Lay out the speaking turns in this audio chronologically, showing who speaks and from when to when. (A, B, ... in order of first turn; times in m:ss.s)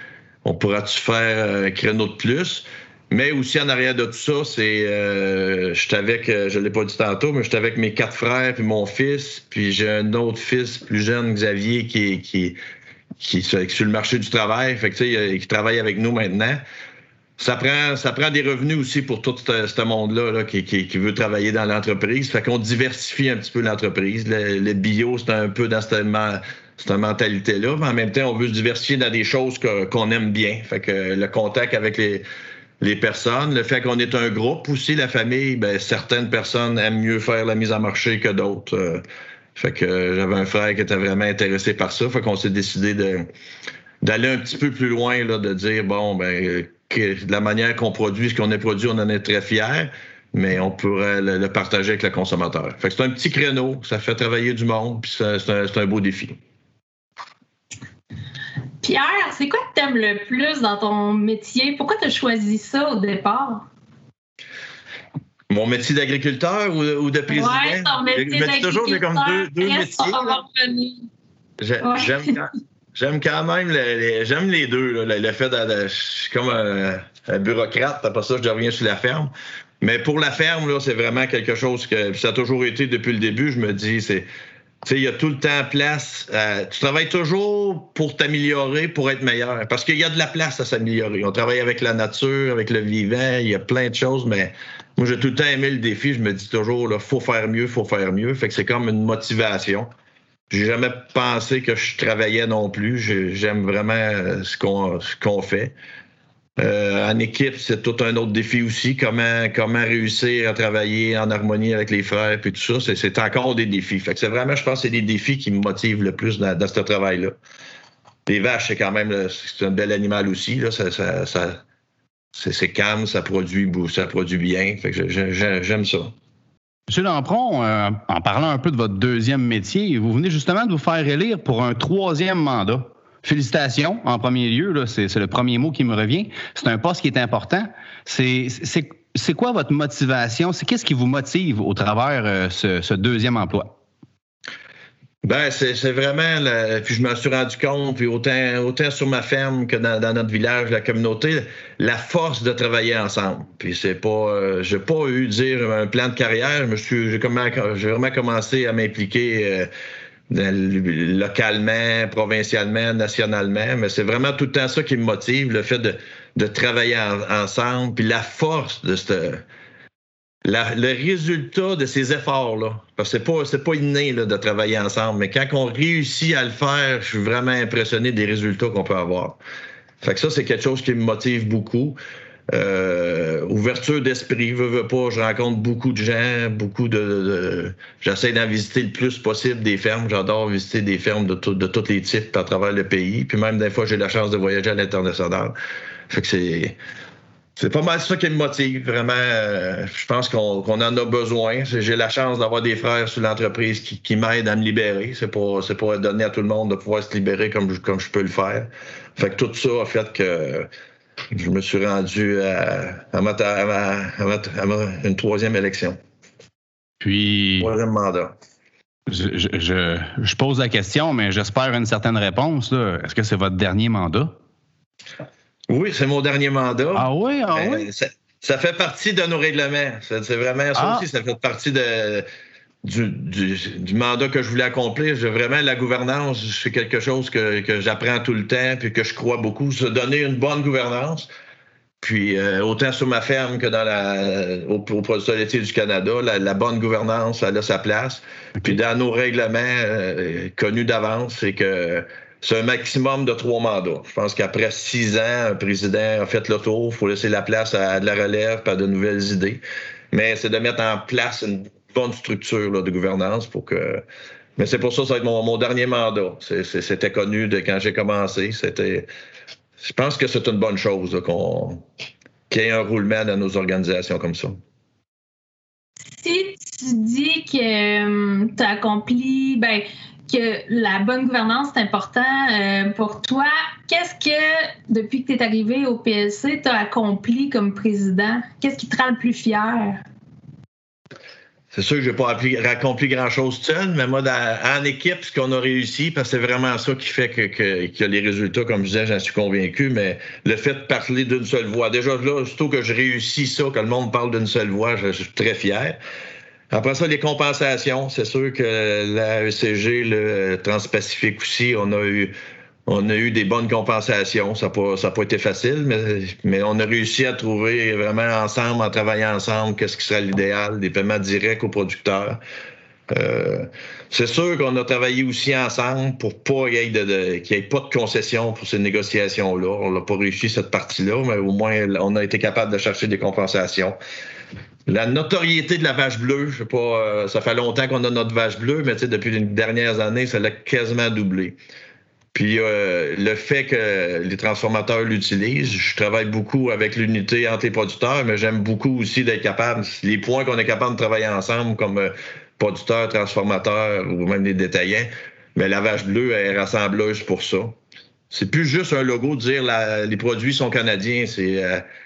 0:00.4-0:12.6 A
0:13.2-0:16.6 A
0:17.4-0:32.2 A
0:32.8-0:39.0 A
0:39.6-0:43.3 A
0:44.0-0:56.4 A
0:58.8-1:03.6 B
1:05.5-1:10.4 A
1:07.3-1:11.1 B
1:11.6-1:24.3 A
1:11.8-1:12.1 B
1:24.8-1:39.9 A
1:40.5-1:45.7 A
1:46.6-1:57.4 A
1:58.3-2:01.6 A
2:02.3-2:06.1 A
2:06.9-2:23.7 C
2:25.2-2:39.7 A
2:40.3-2:49.4 A
2:50.4-2:59.4 A
3:00.0-3:02.0 A
3:02.5-3:15.5 A
3:16.1-3:16.8 A
3:17.6-3:30.7 A
3:31.3-3:36.0 A
3:37.0-3:37.7 C
3:37.6-3:38.3 A
3:39.1-3:44.3 C
3:45.7-3:52.2 A
3:47.0-3:47.9 C
3:50.8-3:51.0 C
3:52.8-4:01.3 A
4:02.0-4:24.0 A
4:24.6-4:29.1 A
4:29.8-4:31.8 A
4:32.5-4:34.6 A
4:36.1-4:50.0 B
4:51.7-5:06.0 A
5:06.7-5:12.3 A
5:12.9-5:22.4 A
5:23.1-5:34.0 A
5:34.9-5:41.6 A
5:42.3-5:57.8 A
5:58.3-6:01.8 A